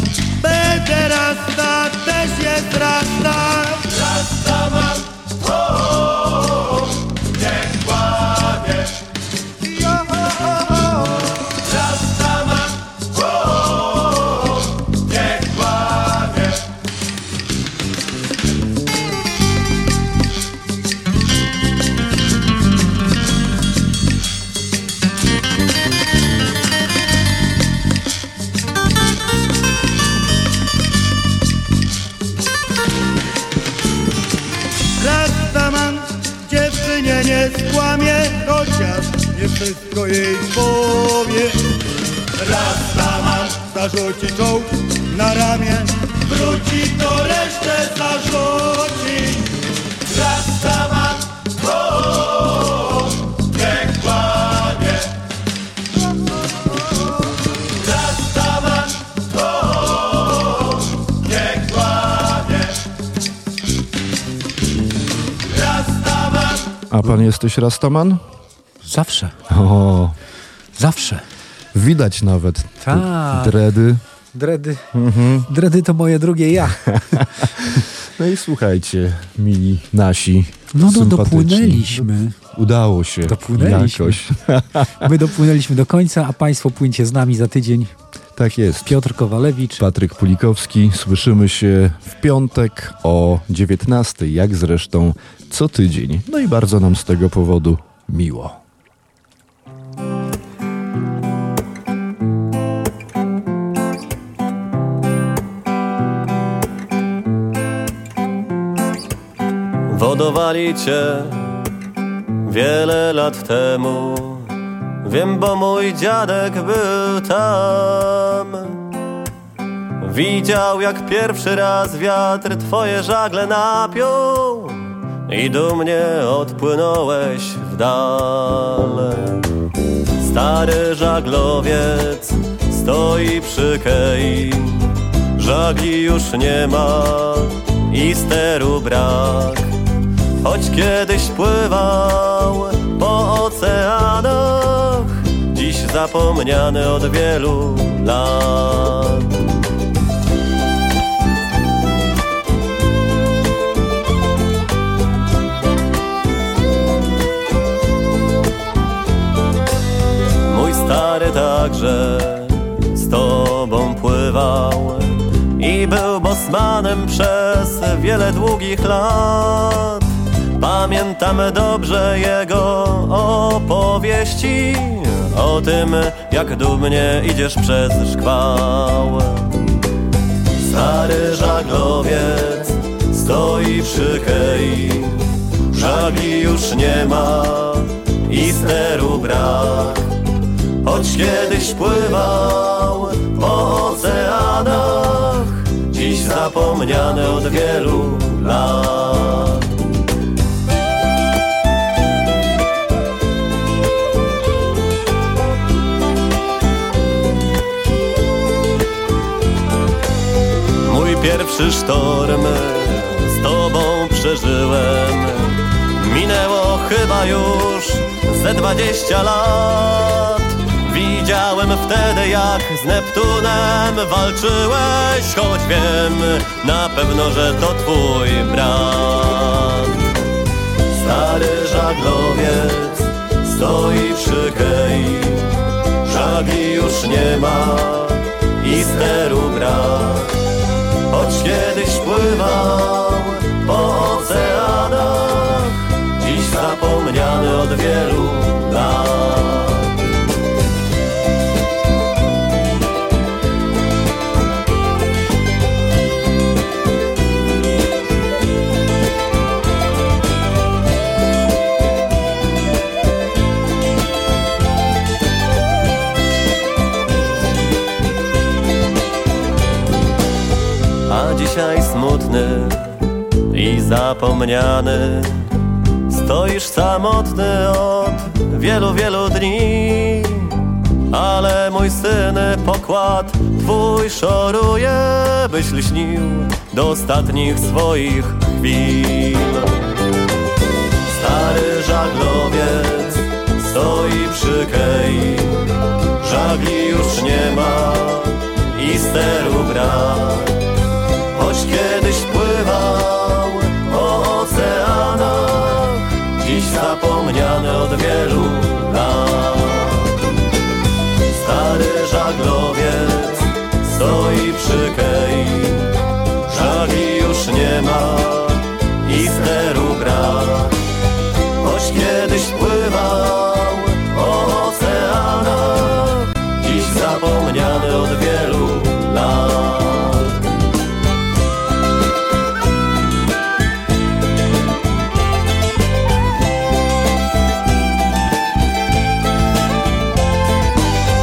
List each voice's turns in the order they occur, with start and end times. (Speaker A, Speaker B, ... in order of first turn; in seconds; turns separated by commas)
Speaker A: 0.4-3.8, Speaker A: 35.0-41.6, Speaker A: 42.5-49.4, Speaker B: 66.9-68.2, Speaker C: 68.8-69.4, Speaker B: 69.5-70.2, Speaker C: 70.8-71.2, Speaker B: 71.7-74.0, Speaker C: 72.8-73.6, Speaker C: 74.3-74.9, Speaker B: 74.9-75.5, Speaker C: 75.5-76.8, Speaker B: 76.9-85.1, Speaker C: 80.7-82.3, Speaker C: 83.2-84.2, Speaker C: 85.0-87.9, Speaker B: 88.4-89.0, Speaker C: 88.9-89.9, Speaker B: 89.8-98.6, Speaker D: 109.9-111.4, Speaker D: 112.5-114.5, Speaker D: 115.0-118.8, Speaker D: 120.0-129.4, Speaker D: 130.2-139.7, Speaker D: 140.4-149.3, Speaker D: 160.5-170.1, Speaker D: 170.6-179.5, Speaker D: 180.6-185.2, Speaker D: 185.7-190.0, Speaker D: 190.8-199.6, Speaker D: 210.8-230.0, Speaker D: 230.9-235.5, Speaker D: 236.1-240.3, Speaker D: 241.1-249.9, Speaker D: 271.1-272.9, Speaker D: 273.5-275.4, Speaker D: 276.1-280.6, Speaker D: 281.1-289.8, Speaker D: 291.1-295.6, Speaker D: 296.2-300.5, Speaker D: 301.3-310.1, Speaker D: 311.4-315.9, Speaker D: 316.5-320.7, Speaker D: 321.6-330.3